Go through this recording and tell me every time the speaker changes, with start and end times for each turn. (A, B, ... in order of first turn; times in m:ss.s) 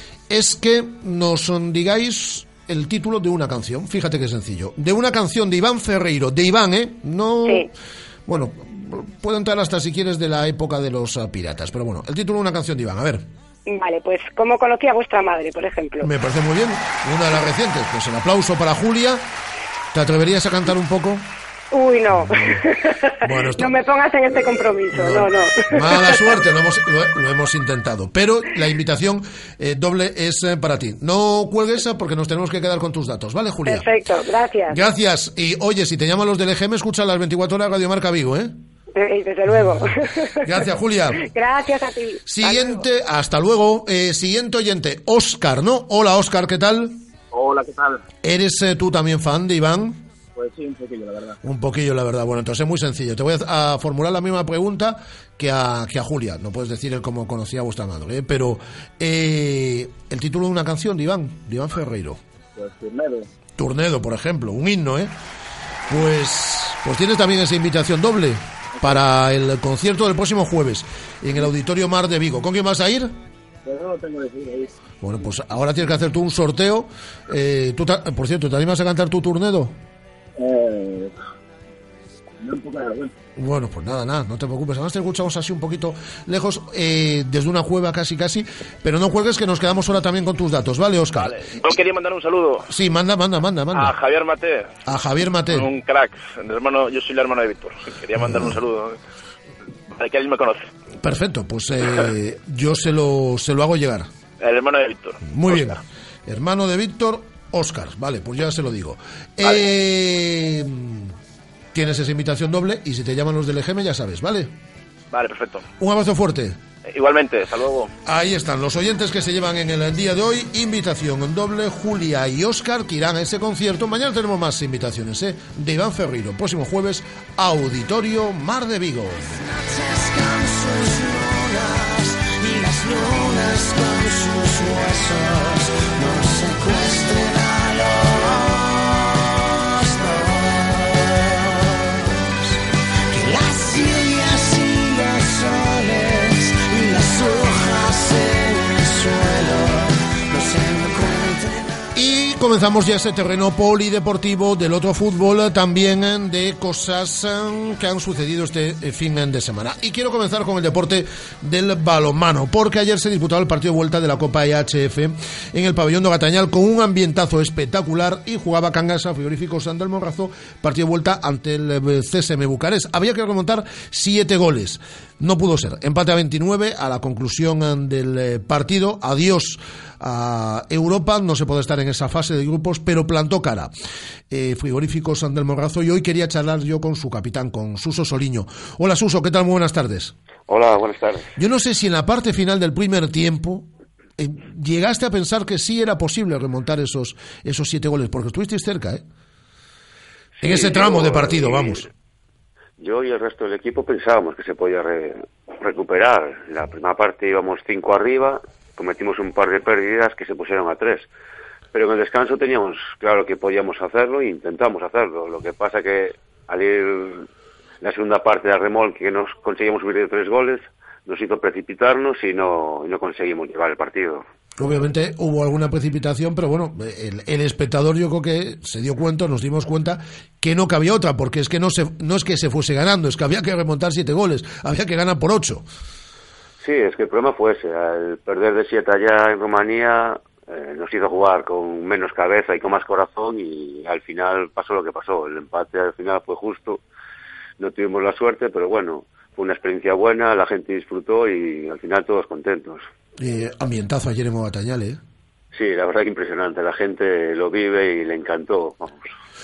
0:00.3-0:07.7 A
0:08.3-0:13.2 A
0:13.7-0:16.0 B
0:16.0-0:19.2 A
0:19.9-0:21.2 A
0:21.7-0:22.1 B
0:23.2-0:23.8 A
0:23.6-0:25.4 B
0:24.9-0:34.0 A
0:33.7-0:34.7 B
0:34.7-0:38.5 A
0:39.0-0:39.4 B
0:40.4-0:41.3 A
0:41.3-0:42.5 B
0:42.3-0:46.9 A
0:47.3-0:48.0 C
0:48.2-0:50.0 A
0:50.4-0:51.4 C
0:51.4-1:02.2 A
1:02.6-1:03.3 C
1:03.6-1:05.1 A
1:05.9-1:13.1 A
1:13.6-1:14.7 C
1:15.0-1:19.7 A
1:20.4-1:21.1 C
1:22.4-1:23.1 C
1:23.4-1:31.4 A
1:31.1-1:32.7 D
1:32.7-1:34.0 A
1:33.7-1:34.7 D
1:34.9-1:35.7 A
1:35.5-1:39.0 D
1:39.9-1:40.7 D
1:41.0-1:44.1 A
1:44.4-1:45.8 D
1:45.2-1:51.1 A
1:51.7-1:54.5 A
1:55.1-1:55.6 D
1:55.8-1:56.6 A
1:56.9-1:57.9 D
1:58.1-2:09.3 A
2:09.5-2:22.6 E
2:23.1-2:31.8 E
2:32.0-3:03.7 A
3:04.3-3:10.1 A
3:10.5-3:11.3 F
3:11.4-3:13.7 A
3:14.2-3:19.0 A
3:20.4-3:21.8 F
3:20.4-3:21.9 A
3:22.8-3:31.1 F
3:31.7-3:37.3 F
3:37.8-3:44.2 F
3:44.6-3:55.6 A
3:56.6-4:06.8 F
4:07.6-4:12.8 F
4:13.2-4:15.0 A
4:15.5-4:19.1 F